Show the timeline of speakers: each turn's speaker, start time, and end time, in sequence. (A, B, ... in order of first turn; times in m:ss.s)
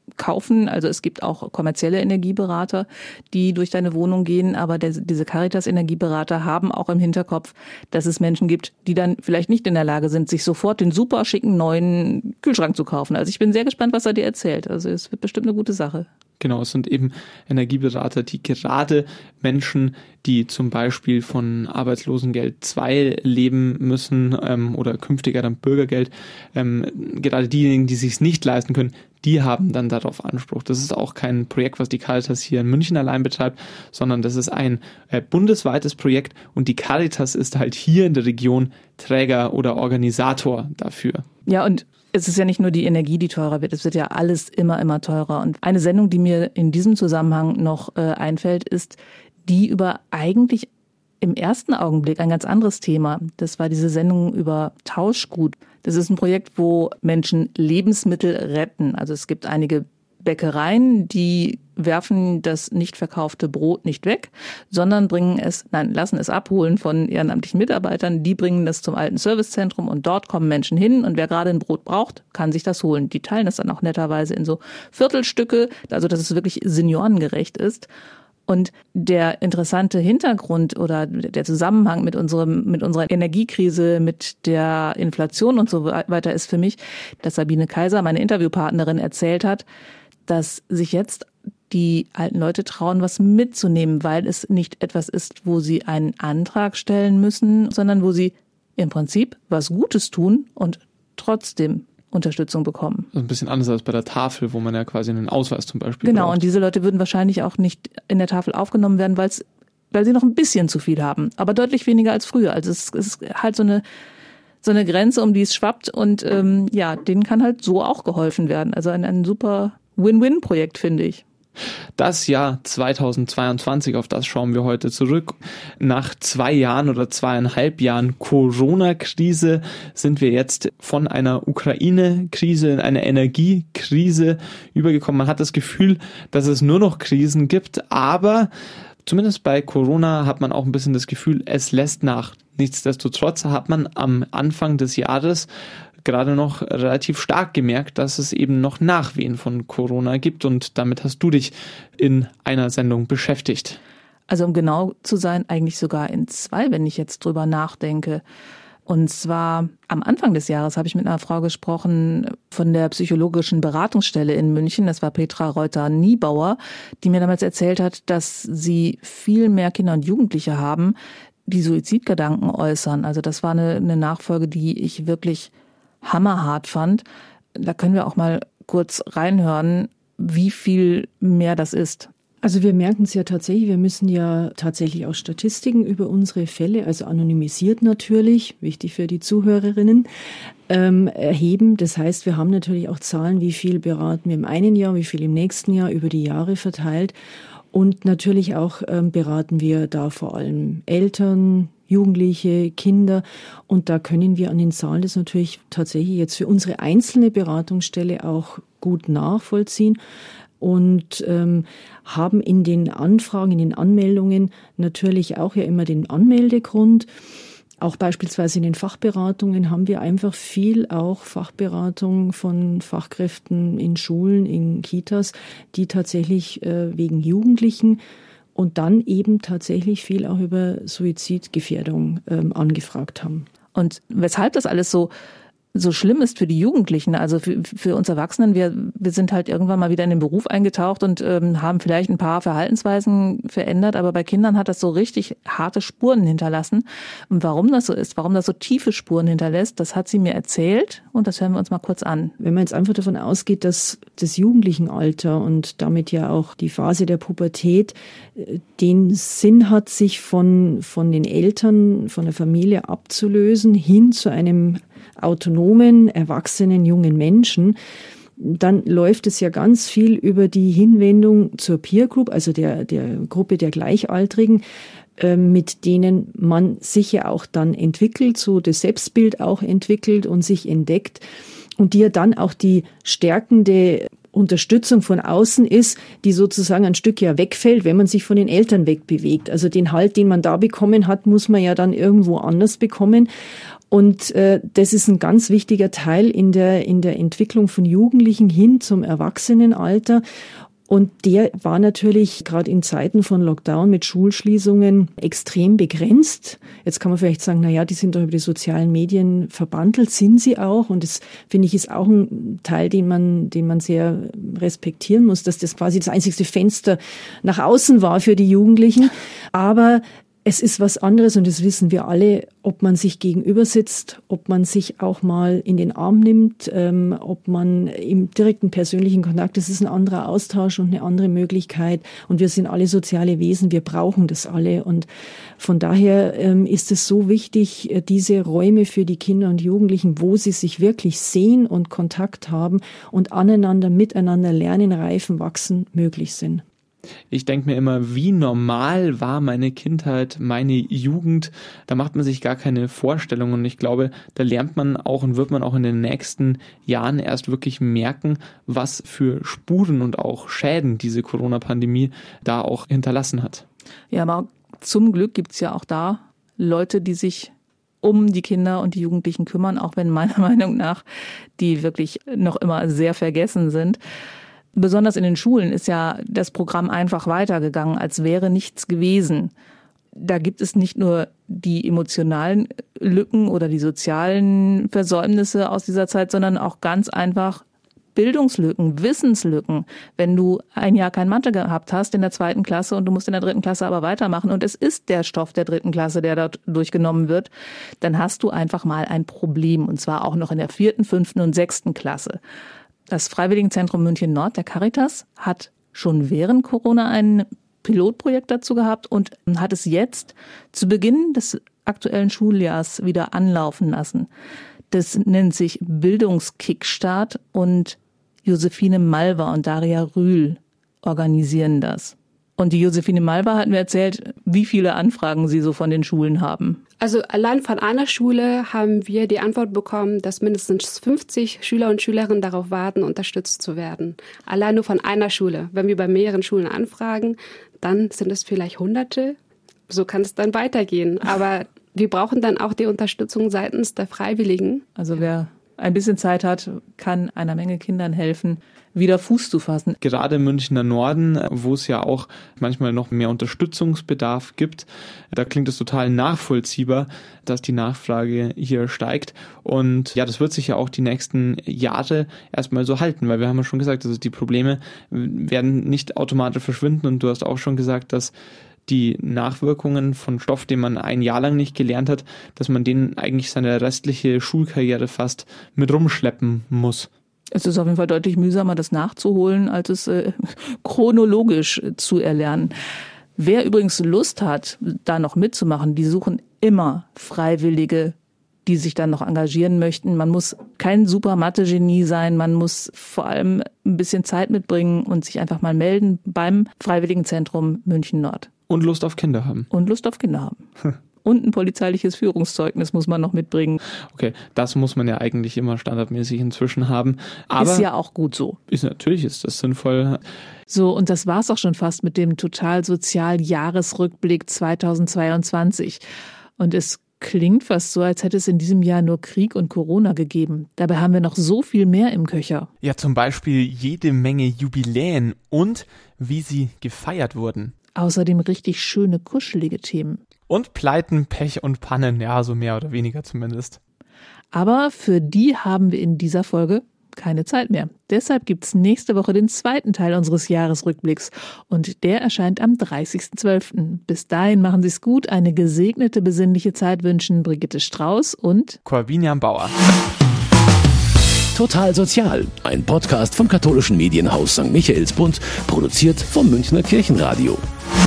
0:00.2-0:16.1 A
0:16.4-0:41.2 B
0:41.5-0:50.7 A
0:51.2-1:17.9 A
1:18.5-1:29.6 A
1:30.2-1:43.1 A
1:43.1-1:46.4 B
1:46.0-1:53.8 A
1:54.6-2:01.2 A
2:02.0-2:18.5 B
2:19.0-2:25.5 B
2:26.0-2:33.8 B
2:34.3-2:38.2 A
2:38.9-2:50.9 A
2:51.4-2:55.5 A
2:56.0-2:57.0 A
2:57.5-3:02.1 A
3:02.4-3:10.1 C
3:10.7-3:17.1 C
3:17.7-3:30.0 C
3:30.6-3:37.1 C
3:37.8-3:48.0 C
3:48.5-3:53.5 C
3:53.7-3:55.1 A
3:55.7-4:12.3 A
4:12.4-4:27.8 C
4:28.4-4:34.6 C
4:35.2-4:41.2 C
4:41.8-4:53.3 C
4:53.9-5:00.2 C
5:00.9-5:35.1 C
5:35.6-5:46.6 C
5:47.3-6:03.6 B
6:04.1-6:11.0 A
6:11.6-6:14.0 A
6:14.7-6:19.5 A
6:20.1-6:27.6 A
6:28.1-6:42.4 A
6:43.1-6:54.3 A
6:54.9-7:06.8 A
7:07.0-7:19.4 D
7:19.9-7:24.8 D
7:25.0-7:30.0 A
7:30.0-7:48.3 B
7:48.9-7:57.1 B
7:57.5-8:02.7 A
8:03.4-8:18.5 A
8:18.7-8:19.7 B
8:19.7-8:20.6 A
8:21.2-8:23.8 A
8:24.1-8:27.9 B
8:27.6-8:28.6 A
8:28.7-8:30.2 B
8:30.7-8:36.0 A
8:36.6-8:42.7 A
8:42.8-8:47.7 B
8:48.0-8:50.2 A
8:50.5-8:53.8 B
8:54.5-9:08.8 A
9:08.8-9:09.7 B
9:11.5-9:17.6 E